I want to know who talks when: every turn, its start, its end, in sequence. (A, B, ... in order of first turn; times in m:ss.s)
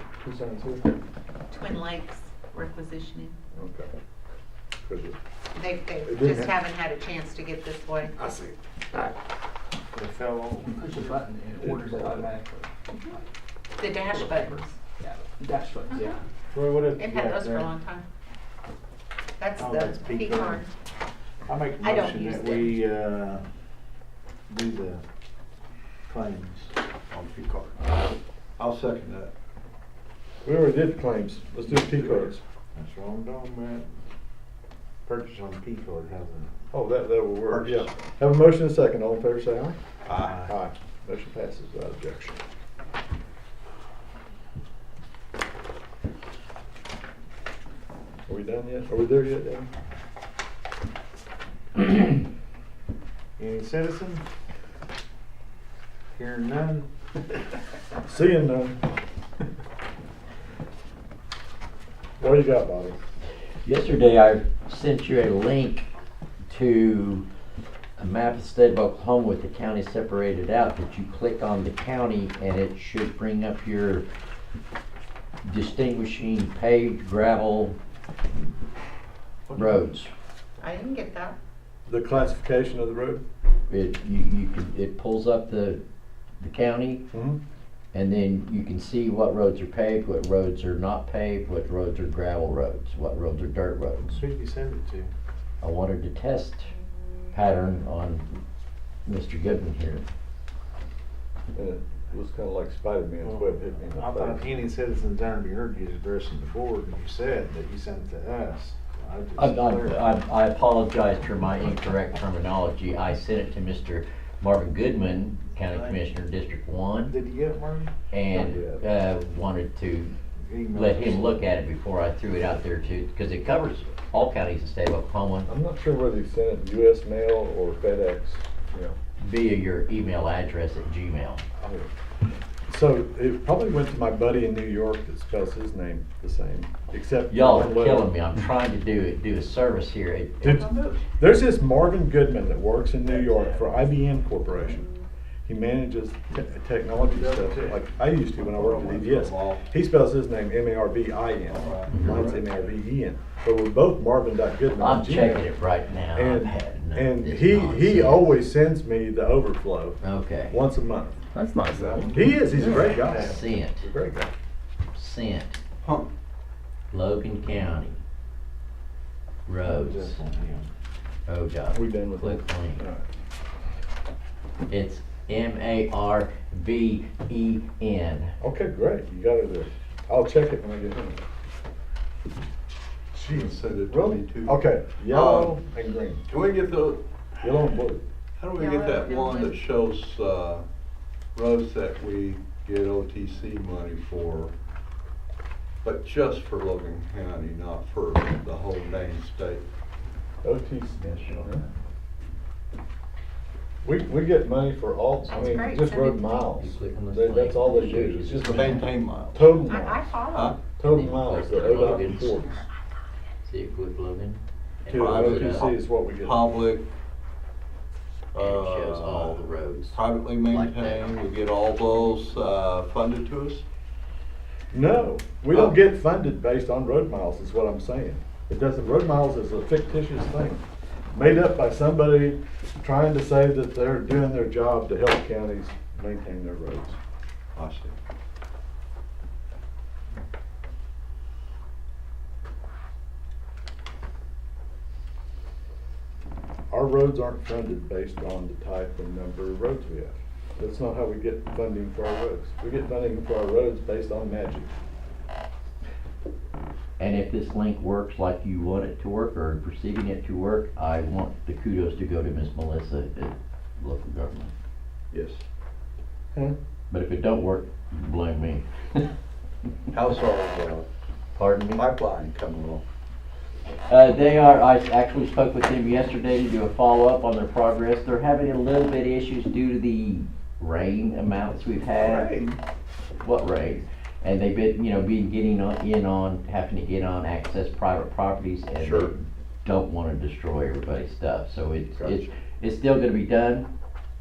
0:00.2-0:00.8 A
0:01.5-0:03.3 B
0:03.5-0:03.9 A
0:04.8-0:05.2 A
0:05.5-0:08.1 B
0:06.1-0:06.5 A
0:09.9-0:10.8 C
0:10.6-0:13.2 D
0:13.8-0:14.8 B
0:13.9-0:16.2 D
0:15.9-0:16.2 B
0:16.5-0:17.7 C
0:16.9-0:18.0 B
0:19.4-0:20.7 B
0:19.6-0:20.6 C
0:21.5-0:23.4 C
0:21.8-0:22.8 B
0:24.5-0:25.0 C
0:26.1-0:26.7 C
0:27.1-0:27.8 E
0:28.6-0:29.3 E
0:30.4-0:32.4 A
0:31.7-0:33.9 C
0:35.0-0:36.5 C
0:36.7-0:39.8 A
0:37.5-0:37.9 E
0:40.0-0:40.4 E
0:40.2-0:40.6 C
0:40.4-0:42.4 A
0:48.3-0:49.7 A
0:53.4-0:54.2 C
0:56.1-0:56.9 C
0:58.0-0:58.8 A
1:02.2-1:03.0 A
1:03.6-1:05.9 F
1:06.5-1:07.2 F
1:08.0-1:14.0 F
1:15.4-1:17.8 F
1:19.5-1:19.9 A
1:19.5-1:20.1 F
1:20.6-1:21.4 B
1:21.8-1:23.2 A
1:23.7-1:25.8 F
1:26.4-1:27.0 F
1:27.1-1:27.4 A
1:27.9-1:34.2 F
1:34.0-1:35.1 C
1:35.6-1:36.7 F
1:37.3-1:38.2 F
1:39.0-1:40.0 F
1:41.5-1:44.5 A
1:43.2-1:50.1 C
1:49.4-1:57.2 F
1:55.6-1:56.0 C
1:57.1-1:57.9 C
1:58.1-2:00.1 F
1:58.3-1:58.8 A
2:00.4-2:01.4 C
2:00.7-2:05.5 F
2:05.5-2:08.9 A
2:09.2-2:11.4 F
2:11.6-2:11.9 A
2:12.7-2:18.1 A
2:17.3-2:20.6 F
2:20.4-2:24.8 A
2:20.4-2:21.1 B
2:23.0-2:23.7 C
2:25.4-2:35.5 A
2:27.1-2:27.8 C
2:27.2-2:27.6 E
2:28.4-2:29.7 E
2:31.5-2:32.5 E
2:31.9-2:32.2 F
2:34.8-2:38.4 F
2:36.1-2:41.2 A
2:40.0-2:40.6 F
2:41.3-2:42.2 D
2:41.7-2:42.1 E
2:41.7-2:43.4 C
2:42.1-2:44.3 A
2:42.6-2:43.8 F
2:44.9-2:45.6 F
2:45.8-2:46.1 E
2:46.9-2:48.0 F
2:49.4-2:50.2 F
2:49.6-2:50.7 C
2:51.3-2:52.8 F
2:51.7-2:53.0 A
2:54.7-2:58.3 F
2:58.4-3:01.2 A
3:03.1-3:06.2 A
3:03.3-3:05.5 E
3:06.3-3:07.0 E
3:07.4-3:08.0 A
3:08.4-3:10.6 E
3:08.5-3:09.6 B
3:11.3-3:14.5 E
3:15.8-3:19.6 E
3:20.4-3:21.6 A
3:21.0-3:21.6 F
3:23.8-3:30.1 A
3:25.3-3:26.5 B
3:26.6-3:28.9 F
3:28.4-3:29.6 E
3:29.6-3:30.6 B
3:30.3-3:30.6 E
3:30.8-3:32.6 A
3:30.8-3:32.4 F
3:31.5-3:31.8 E
3:31.8-3:32.1 B
3:33.4-3:35.7 F
3:34.9-3:36.4 A
3:34.9-3:36.9 E
3:38.3-3:43.6 E
3:38.4-3:41.2 F
3:44.7-3:57.0 A
3:57.6-3:57.9 E
4:06.7-4:14.7 A
4:17.0-4:24.5 F
4:25.1-4:25.4 E
4:26.9-4:29.0 F
4:29.9-4:30.8 E
4:31.3-4:31.8 F
4:31.7-4:32.8 E
4:33.9-4:42.3 F
4:42.0-4:42.6 E
4:43.2-4:53.7 F
4:48.8-4:49.1 E
4:52.0-4:52.2 E